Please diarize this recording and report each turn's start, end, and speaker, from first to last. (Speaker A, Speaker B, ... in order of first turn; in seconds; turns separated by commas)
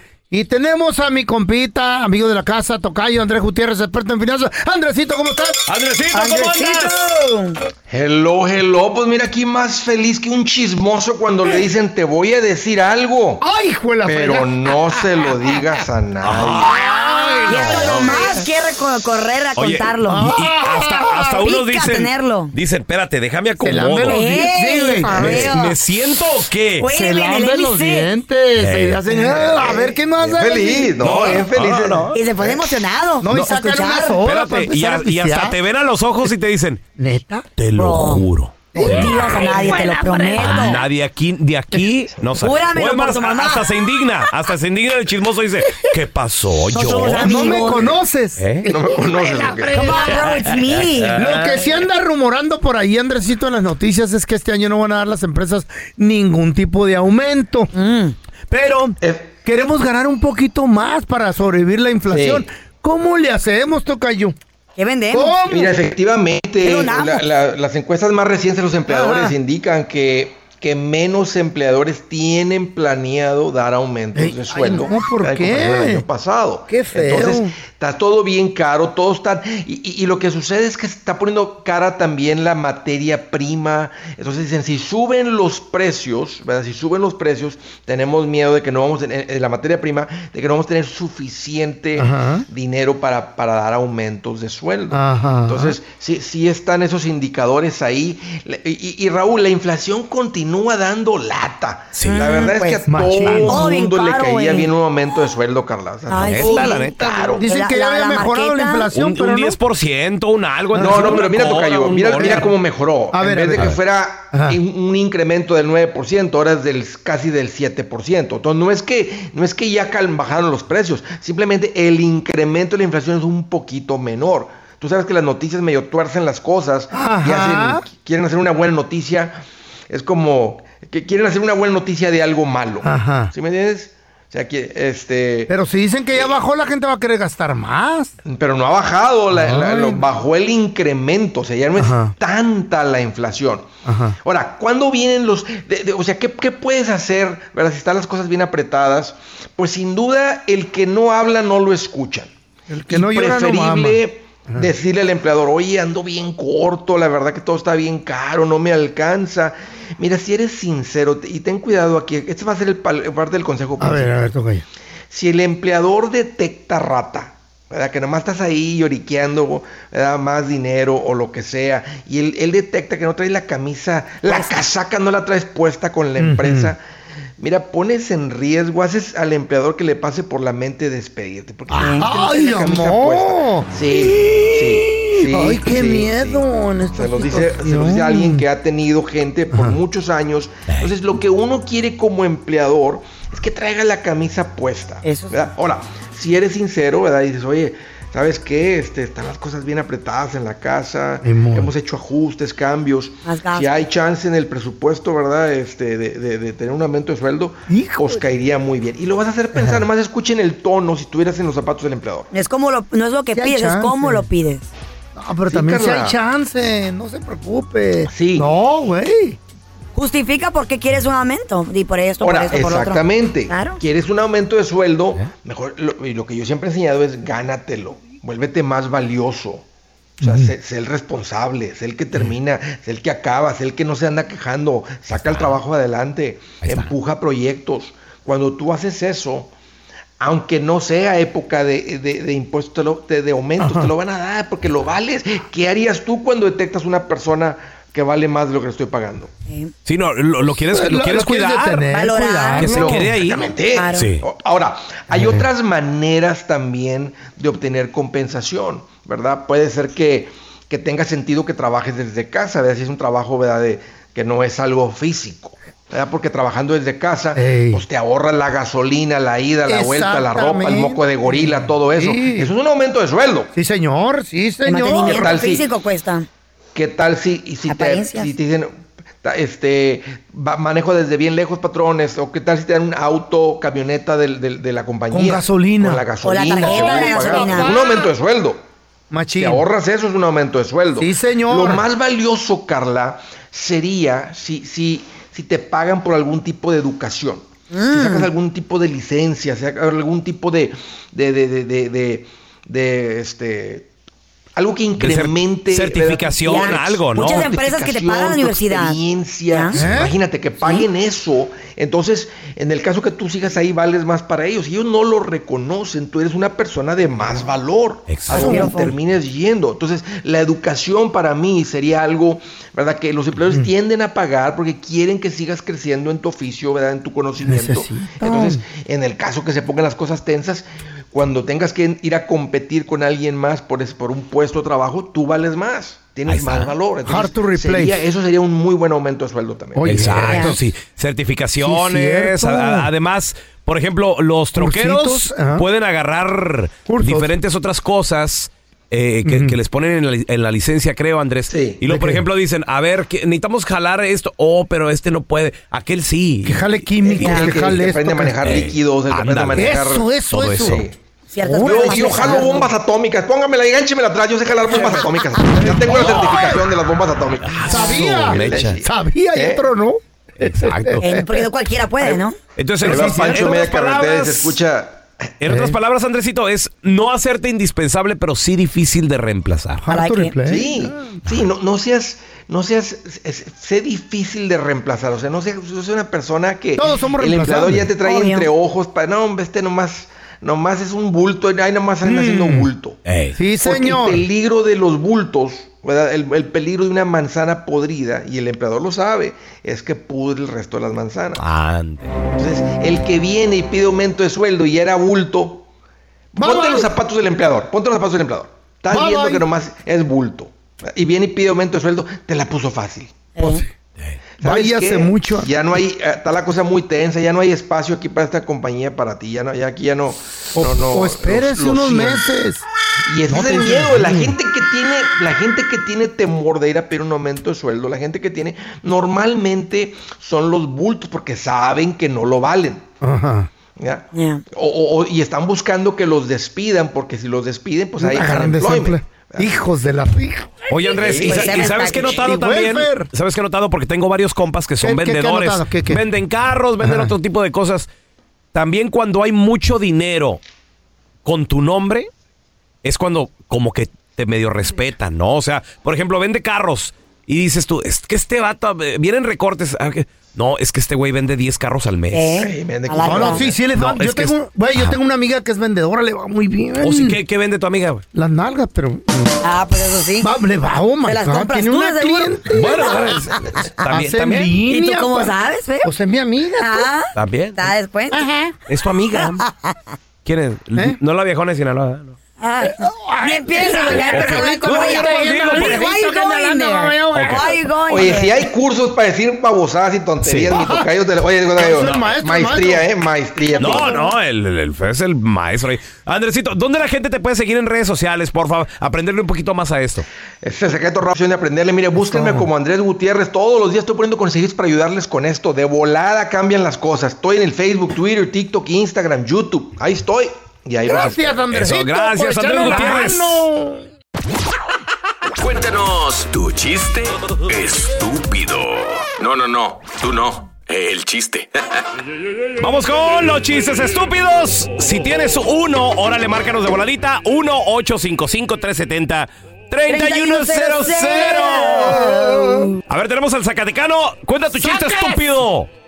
Speaker A: 0.3-5.6, Speaker B: 5.7-7.0, Speaker A: 6.1-7.0, Speaker C: 6.5-6.9, Speaker D: 7.9-13.4, Speaker A: 13.4-15.3, Speaker D: 14.0-16.7, Speaker B: 16.2-18.4, Speaker A: 16.6-18.4, Speaker C: 17.4-20.3, Speaker B: 19.6-24.2, Speaker A: 20.1-21.2, Speaker C: 21.3-22.5, Speaker A: 23.6-25.7, Speaker C: 24.0-25.7, Speaker B: 25.1-26.9, Speaker C: 26.8-28.1, Speaker A: 26.8-31.2, Speaker B: 28.6-29.0, Speaker D: 29.3-32.6, Speaker B: 31.0-32.1, Speaker C: 32.1-34.2, Speaker A: 33.2-35.6, Speaker B: 34.2-36.8, Speaker A: 37.0-37.5, Speaker B: 37.6-47.8, Speaker C: 37.7-40.8, Speaker A: 38.7-39.8, Speaker C: 42.3-43.7, Speaker C: 46.7-47.9, Speaker A: 47.1-49.9, Speaker B: 48.4-48.7, Speaker D: 48.6-50.2, Speaker C: 49.1-51.2, Speaker B: 50.2-51.6, Speaker A: 51.1-57.7, Speaker C: 57.7-58.1, Speaker A: 58.5-64.3, Speaker D: 59.0-59.3, Speaker D: 62.1-62.5, Speaker C: 64.8-65.4, Speaker A: 65.1-65.8, Speaker D: 65.5-107.4, Speaker C: 66.6-67.2, Speaker A: 68.9-69.3, Speaker A: 74.1-76.0, Speaker A: 76.7-77.5, Speaker A: 92.0-92.5, Speaker A: 94.9-95.8, Speaker B: 101.9-102.4, Speaker C: 102.0-104.7, Speaker A: 102.9-103.6, Speaker C: 106.1-108.9, Speaker B: 106.2-107.4, Speaker A: 107.4-109.6, Speaker B: 108.9-112.5, Speaker A: 110.7-111.3, Speaker D: 110.8-129.4, Speaker A: 112.2-112.5, Speaker A: 113.1-113.8, Speaker A: 114.3-114.6, Speaker A: 126.9-127.8, Speaker D: 129.9-135.5, Speaker A: 132.8-133.3, Speaker A: 135.5-138.1, Speaker D: 138.2-143.7, Speaker A: 139.3-140.1, Speaker A: 141.8-142.1, Speaker A: 143.8-144.2, Speaker D: 144.2-152.3, Speaker A: 152.7-154.7, Speaker D: 152.9-164.1, Speaker A: 163.8-164.6, Speaker D: 165.1-176.8, Speaker C: 174.3-174.5, Speaker A: 176.2-176.7, Speaker D: 177.4-186.4, Speaker C: 181.7-182.1, Speaker A: 181.7-188.4, Speaker D: 187.0-212.3, Speaker A: 189.5-189.8, Speaker C: 195.0-195.4, Speaker A: 201.2-201.7, Speaker C: 203.2-203.8, Speaker A: 207.7-208.2, Speaker A: 209.5-209.9, Speaker C: 212.3-214.7, Speaker A: 213.3-214.3, Speaker A: 215.1-219.4, Speaker D: 215.5-216.2, Speaker D: 218.1-218.5, Speaker C: 219.9-223.8, Speaker D: 222.2-229.6, Speaker A: 230.2-230.5, Speaker D: 230.2-239.5, Speaker B: 235.1-235.6, Speaker B: 236.6-236.9, Speaker D: 240.2-249.3, Speaker A: 243.6-243.9, Speaker B: 249.8-251.9, Speaker A: 250.5-253.0, Speaker C: 251.9-252.9, Speaker B: 252.6-254.2, Speaker D: 252.6-273.5, Speaker C: 253.7-254.1, Speaker A: 255.1-255.5, Speaker A: 267.3-267.8, Speaker A: 269.6-272.5, Speaker A: 273.5-275.3, Speaker C: 274.6-276.2, Speaker D: 274.9-275.7, Speaker D: 276.7-288.6, Speaker C: 277.7-278.3, Speaker A: 285.1-286.1, Speaker C: 286.2-287.9, Speaker A: 286.6-287.9, Speaker A: 289.1-289.6, Speaker D: 289.4-303.9, Speaker A: 290.9-291.8, Speaker C: 297.7-298.3, Speaker D: 304.6-340.1, Speaker B: 305.0-307.5, Speaker C: 306.4-309.0, Speaker C: 309.5-309.8, Speaker A: 309.7-310.1, Speaker B: 318.1-318.6, Speaker C: 318.3-318.9, Speaker A: 318.3-318.8, Speaker A: 327.4-328.6, Speaker B: 336.3-336.7, Speaker A: 337.1-338.0, Speaker A: 339.8-340.6, Speaker B: 339.8-356.8, Speaker C: 340.3-340.6, Speaker A: 341.6-342.9, Speaker A: 344.6-345.6, Speaker A: 346.9-347.3, Speaker A: 349.2-349.6, Speaker D: 351.5-351.8, Speaker A: 351.9-352.2, Speaker A: 356.4-358.4, Speaker D: 357.1-369.6, Speaker C: 357.2-357.5, Speaker B: 358.4-360.9, Speaker A: 359.5-360.9, Speaker C: 361.3-362.7, Speaker A: 361.6-362.4, Speaker A: 364.7-366.5, Speaker B: 367.4-368.8, Speaker A: 367.7-371.4, Speaker B: 370.4-371.1, Speaker C: 371.0-372.4, Speaker B: 372.6-374.6, Speaker A: 372.8-373.5, Speaker D: 372.8-375.1, Speaker B: 375.4-379.8, Speaker A: 375.5-375.8, Speaker A: 379.8-381.2, Speaker C: 379.9-380.4, Speaker D: 380.5-393.0, Speaker A: 386.8-387.9, Speaker C: 388.0-388.5, Speaker A: 392.0-392.7, Speaker B: 393.1-393.4, Speaker A: 393.3-394.2, Speaker D: 393.6-401.4, Speaker B: 401.4-402.2, Speaker D: 402.4-405.7, Speaker D: 406.3-413.1, Speaker A: 406.4-406.9, Speaker A: 408.9-409.4, Speaker C: 413.4-413.6, Speaker A: 413.4-413.6, Speaker D: 414.4-422.2, Speaker A: 414.4-415.8, Speaker A: 420.5-422.6, Speaker D: 423.1-432.8, Speaker A: 423.3-424.4, Speaker A: 433.0-433.5, Speaker D: 433.8-439.5, Speaker C: 434.1-434.4, Speaker A: 438.0-440.6, Speaker B: 440.7-447.9, Speaker C: 440.9-442.2, Speaker D: 441.0-441.7, Speaker A: 442.1-443.1, Speaker A: 444.8-446.0, Speaker A: 446.8-447.1, Speaker B: 448.5-450.4, Speaker B: 451.2-452.1, Speaker B: 452.8-462.4, Speaker C: 462.1-463.5, Speaker D: 462.4-463.5, Speaker A: 463.0-467.2, Speaker B: 463.7-464.9, Speaker B: 466.8-468.0, Speaker A: 468.1-469.3, Speaker C: 469.4-470.3, Speaker A: 470.2-473.0, Speaker C: 471.0-473.6, Speaker B: 472.5-474.5, Speaker A: 473.9-476.9, Speaker C: 474.6-475.9, Speaker C: 476.6-478.3, Speaker B: 477.1-477.7, Speaker A: 478.1-478.4, Speaker B: 478.7-479.4, Speaker C: 479.1-479.7, Speaker B: 480.2-482.1, Speaker C: 482.4-488.4, Speaker A: 482.6-487.6, Speaker B: 483.7-485.9, Speaker B: 487.1-487.5, Speaker D: 487.9-494.0, Speaker B: 490.2-490.5, Speaker A: 490.5-490.9, Speaker A: 491.6-492.9, Speaker A: 493.4-494.1, Speaker B: 493.6-500.1, Speaker D: 500.4-511.4, Speaker A: 502.0-502.5, Speaker A: 510.8-513.9, Speaker B: 511.5-513.4, Speaker E: 515.4-521.8, Speaker B: 522.6-532.0, Speaker C: 529.9-532.7, Speaker A: 531.8-532.7, Speaker B: 532.9-535.7, Speaker A: 534.5-535.1